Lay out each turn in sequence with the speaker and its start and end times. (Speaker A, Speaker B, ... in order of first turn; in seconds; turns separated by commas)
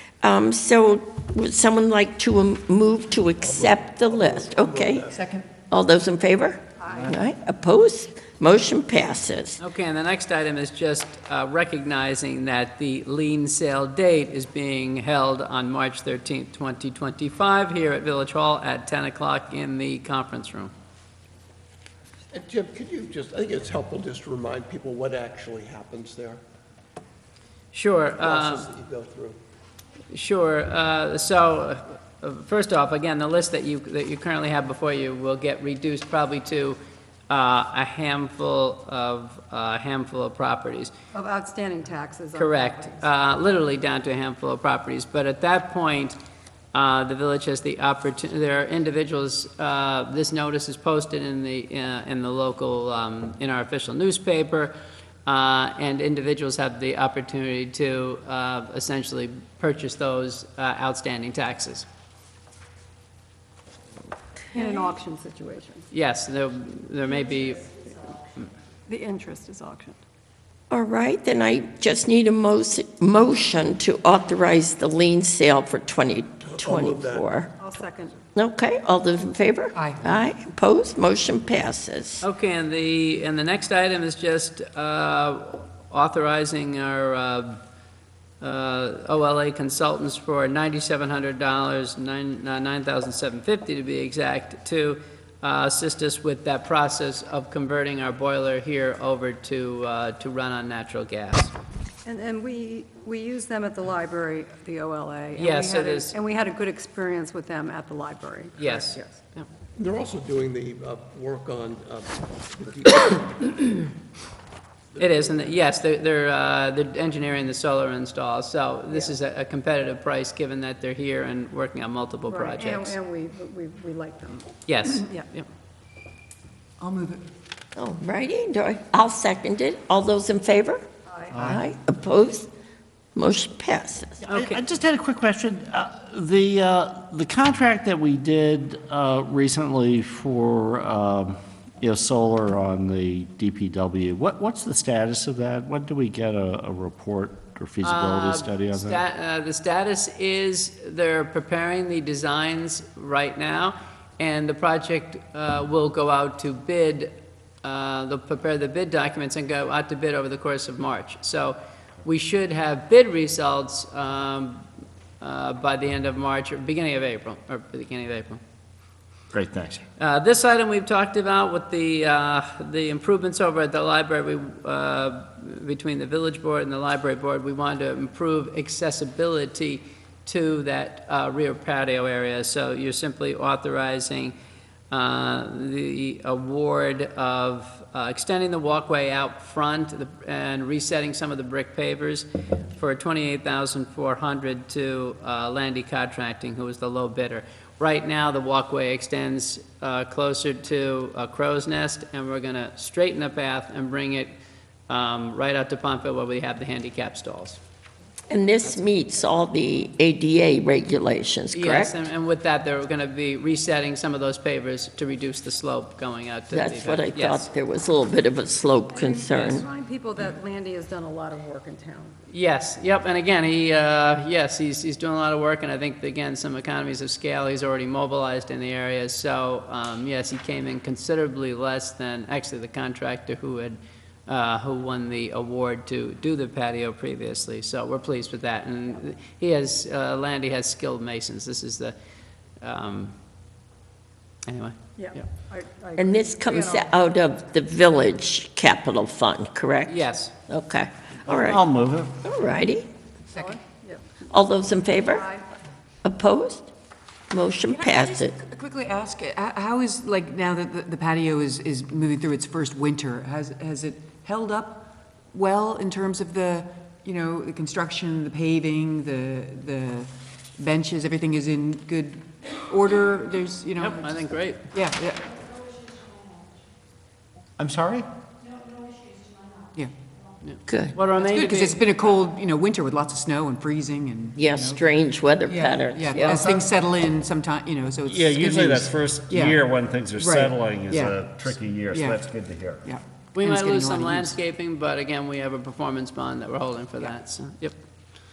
Speaker A: 0.2-5.1, Speaker B: 3.4-5.3, Speaker C: 5.2-5.5, Speaker A: 5.7-9.6, Speaker D: 6.8-7.2, Speaker E: 9.6-20.7, Speaker B: 22.3-26.4, Speaker E: 27.7-28.7, Speaker B: 28.2-29.4, Speaker E: 30.1-36.8, Speaker E: 37.3-40.9, Speaker D: 41.1-43.0, Speaker E: 42.4-46.2, Speaker E: 46.7-54.7, Speaker E: 55.2-61.9, Speaker D: 64.5-65.8, Speaker E: 65.9-67.7, Speaker D: 68.9-70.0, Speaker A: 70.7-77.5, Speaker B: 76.5-77.3, Speaker D: 77.6-78.2, Speaker A: 78.3-82.2, Speaker C: 79.7-80.0, Speaker E: 82.2-87.6, Speaker E: 88.4-101.5, Speaker D: 102.0-109.2, Speaker E: 105.3-106.2, Speaker E: 108.6-109.5, Speaker B: 109.8-113.7, Speaker B: 114.9-115.5, Speaker E: 115.0-123.0, Speaker D: 122.3-125.3, Speaker E: 124.7-125.5, Speaker C: 126.8-127.2, Speaker A: 127.8-130.8, Speaker D: 131.1-131.3, Speaker A: 131.3-132.5, Speaker A: 133.1-134.2, Speaker F: 134.2-149.0, Speaker E: 134.3-134.6, Speaker E: 147.8-157.1, Speaker E: 157.6-164.6, Speaker E: 165.2-168.4, Speaker F: 169.3-169.8, Speaker E: 170.0-184.3, Speaker E: 184.9-204.3, Speaker E: 204.9-207.6, Speaker A: 208.3-211.9, Speaker E: 211.5-217.5, Speaker A: 216.5-219.7, Speaker D: 218.9-222.2, Speaker E: 222.3-241.9, Speaker E: 242.6-243.1, Speaker E: 244.5-245.2, Speaker D: 245.0-246.9, Speaker A: 246.0-251.6, Speaker E: 249.9-250.3, Speaker F: 251.3-252.2, Speaker A: 252.2-252.9, Speaker C: 253.3-253.6, Speaker D: 253.3-254.0, Speaker A: 254.3-255.3, Speaker D: 255.1-255.4, Speaker A: 256.0-256.7, Speaker A: 257.3-258.4, Speaker C: 257.7-275.3, Speaker E: 273.8-274.7, Speaker F: 277.6-278.1, Speaker E: 280.4-281.9, Speaker A: 280.7-280.9, Speaker C: 281.2-284.8, Speaker A: 284.4-286.5, Speaker C: 285.5-289.6, Speaker F: 286.1-286.6, Speaker F: 288.0-292.9, Speaker C: 290.2-292.2, Speaker C: 292.8-294.3, Speaker E: 293.3-297.8